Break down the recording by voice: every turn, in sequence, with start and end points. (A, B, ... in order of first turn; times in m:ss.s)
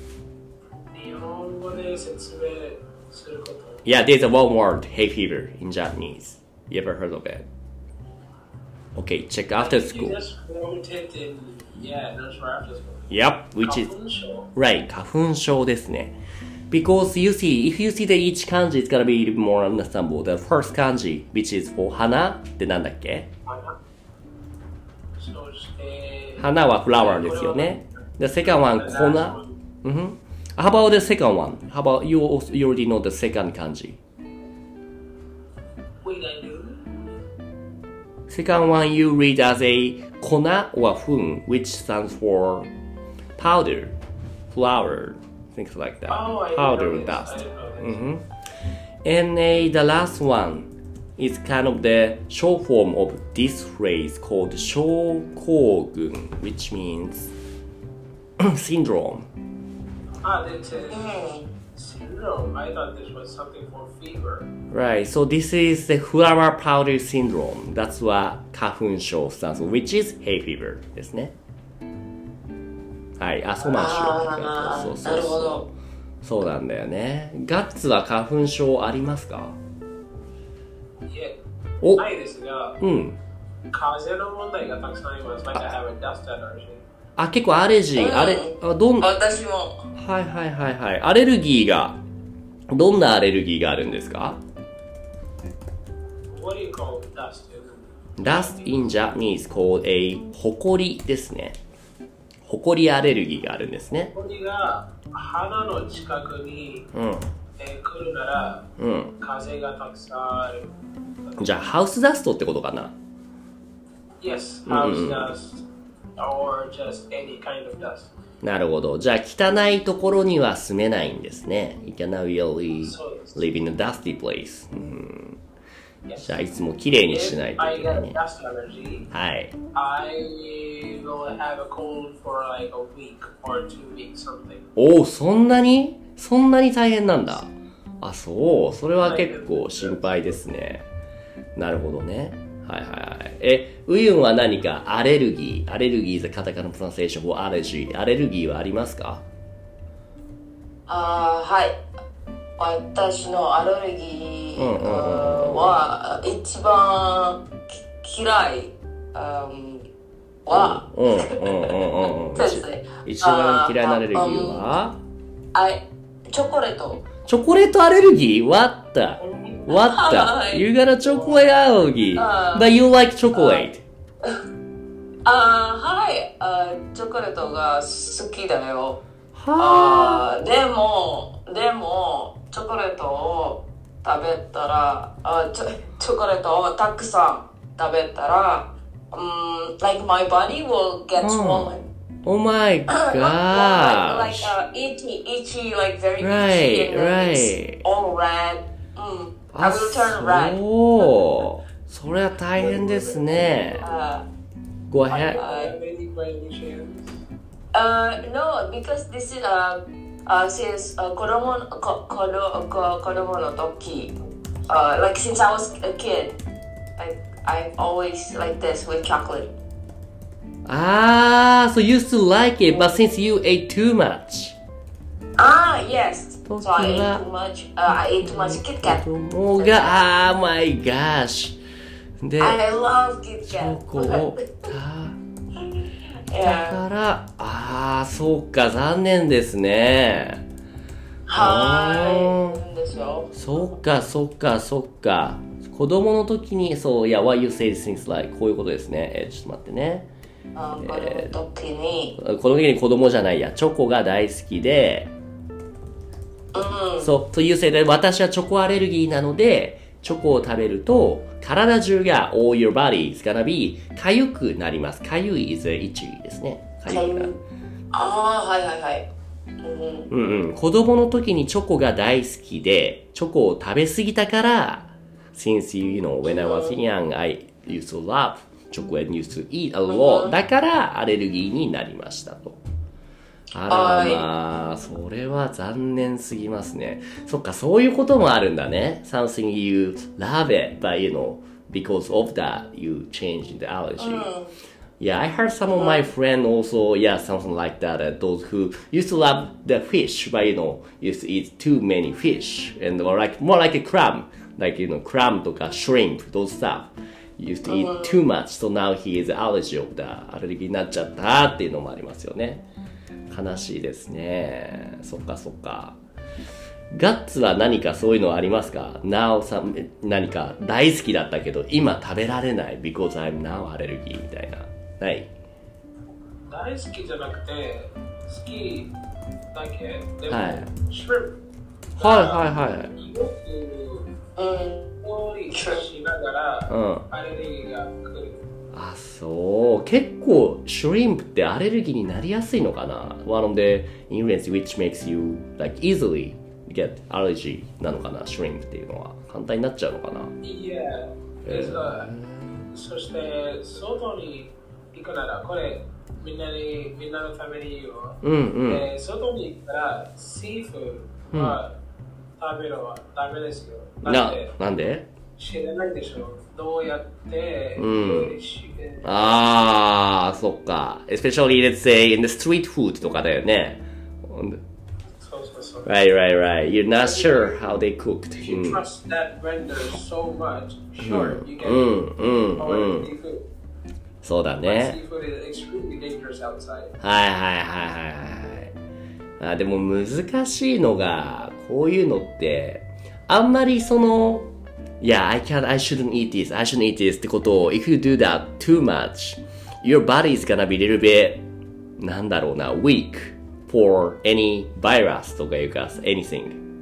0:00.8-0:03.8 A
0:03.8-0:07.5 B
0:09.0-0:10.2 B
0:09.6-0:13.1 A
0:13.1-0:13.9 B
0:13.6-0:14.5 A
0:14.5-0:16.1 B
0:16.7-0:23.3 B
0:23.5-0:23.8 A
0:25.2-0:27.8 A
0:26.4-0:34.0 B
0:28.4-0:29.5 A
0:36.0-0:37.1 A
0:38.3-0:42.7 B
0:43.4-0:44.0 B
0:44.5-0:48.3 B
0:46.1-0:48.0 A
0:49.0-0:57.3 B
0:58.4-0:59.3 B
1:00.2-1:04.5 A
1:00.9-1:01.5 C
1:04.7-1:11.3 B
1:13.2-1:19.6 B
1:13.6-1:13.9 A
1:13.8-1:15.6 C
1:21.1-1:21.4 A
1:21.8-1:22.1 B
1:22.0-1:22.8 A
1:22.8-1:23.2 B
1:23.7-1:26.8 A
1:27.2-1:29.1 B
1:28.0-1:29.9 C
1:30.0-1:32.0 B
1:32.7-1:34.4 B
1:36.3-1:38.6 A
1:38.2-1:41.6 B
1:42.4-1:44.1 B
1:44.1-1:46.9 A
1:46.9-1:47.3 B
1:47.6-1:48.7 A
1:48.8-1:49.1 B
1:49.2-1:50.7 A
1:51.3-1:51.6 A
1:51.4-1:53.0 B
1:54.2-1:55.6 A
1:54.7-1:55.3 B
1:56.2-1:58.1 A
1:58.4-2:05.4 B
2:02.8-2:03.5 A
2:06.0-2:06.5 A
2:06.2-2:08.2 B
2:07.1-2:09.1 A
2:09.1-2:09.6 B
2:09.7-2:14.6 A
2:14.8-2:17.5 B
2:18.0-2:20.9 B
2:19.0-2:20.4 A
2:21.6-2:29.2 B
2:30.9-2:31.8 C
2:32.6-2:39.9 C
2:34.6-2:35.8 B
2:40.4-2:44.6 C
2:40.5-2:45.0 B
2:45.5-2:47.1 C
2:47.3-2:53.8 B
2:49.2-2:49.7 A
2:49.7-2:50.7 C
2:51.2-2:51.5 A
2:52.2-2:52.8 C
2:53.3-2:53.7 C
2:55.2-2:59.0 C
2:59.3-3:00.3 B
2:59.6-3:11.9 C
3:11.2-3:14.6 B
3:12.9-3:20.6 C
3:16.2-3:17.8 B
3:19.5-3:23.8 B
3:22.6-3:24.0 A
3:23.8-3:24.3 C
3:24.9-3:25.4 B
3:25.1-3:25.7 C
3:25.3-3:27.2 A
3:27.7-3:34.1 C
3:34.7-3:36.4 C
3:37.0-3:39.5 C
3:40.7-3:44.6 B
3:45.4-3:50.1 C
3:46.5-3:47.2 B
3:47.9-3:51.6 B
3:52.2-3:52.6 B
3:52.4-3:54.7 C
3:53.4-3:55.2 B
3:56.3-3:56.8 C
3:56.4-4:00.4 B
4:01.3-4:03.7 C
4:01.4-4:02.6 B
4:03.3-4:10.1 B
4:10.6-4:12.2 C
4:10.8-4:11.3 B
4:12.2-4:15.1 B
4:16.5-4:17.1 C
4:17.0-4:27.3 B
4:26.9-4:27.4 C
4:27.9-4:29.1 C
4:29.6-4:30.1 C
4:30.1-4:42.6 B
4:36.2-4:36.8 C
4:39.9-4:40.4 C
4:43.5-4:54.3 B
4:43.7-4:44.3 C
4:54.0-4:54.5 C
4:55.0-5:12.6 B
4:55.8-4:56.1 C
5:07.7-5:08.2 C
5:13.3-5:16.0 B
5:16.9-5:25.3 B
5:26.5-5:28.9 A
5:29.5-5:31.4 A
5:30.3-5:30.7 B
5:32.0-5:32.9 B
5:32.0-5:34.1 A
5:34.4-5:34.9 C
5:35.0-5:38.4 A
5:35.5-5:35.8 C
5:36.7-5:37.1 B
5:38.7-5:50.4 B
5:50.4-5:52.1 A
5:51.4-5:52.7 B
5:52.7-6:01.7 A
5:58.2-5:58.9 B
6:01.3-6:01.6 B
6:02.4-6:04.6 A
6:04.0-6:05.1 B
6:05.4-6:09.3 A
6:07.8-6:08.4 B
6:09.0-6:14.6 B
6:15.2-6:15.9 A
6:15.8-6:18.8 B
6:17.0-6:17.6 A
6:18.3-6:22.0 A
6:21.0-6:23.1 B
6:22.6-6:23.5 A
6:24.2-6:25.0 B
6:24.6-6:27.0 A
6:27.0-6:28.7 B
6:29.4-6:34.5 B
6:35.0-6:41.4 B
6:42.0-6:46.6 B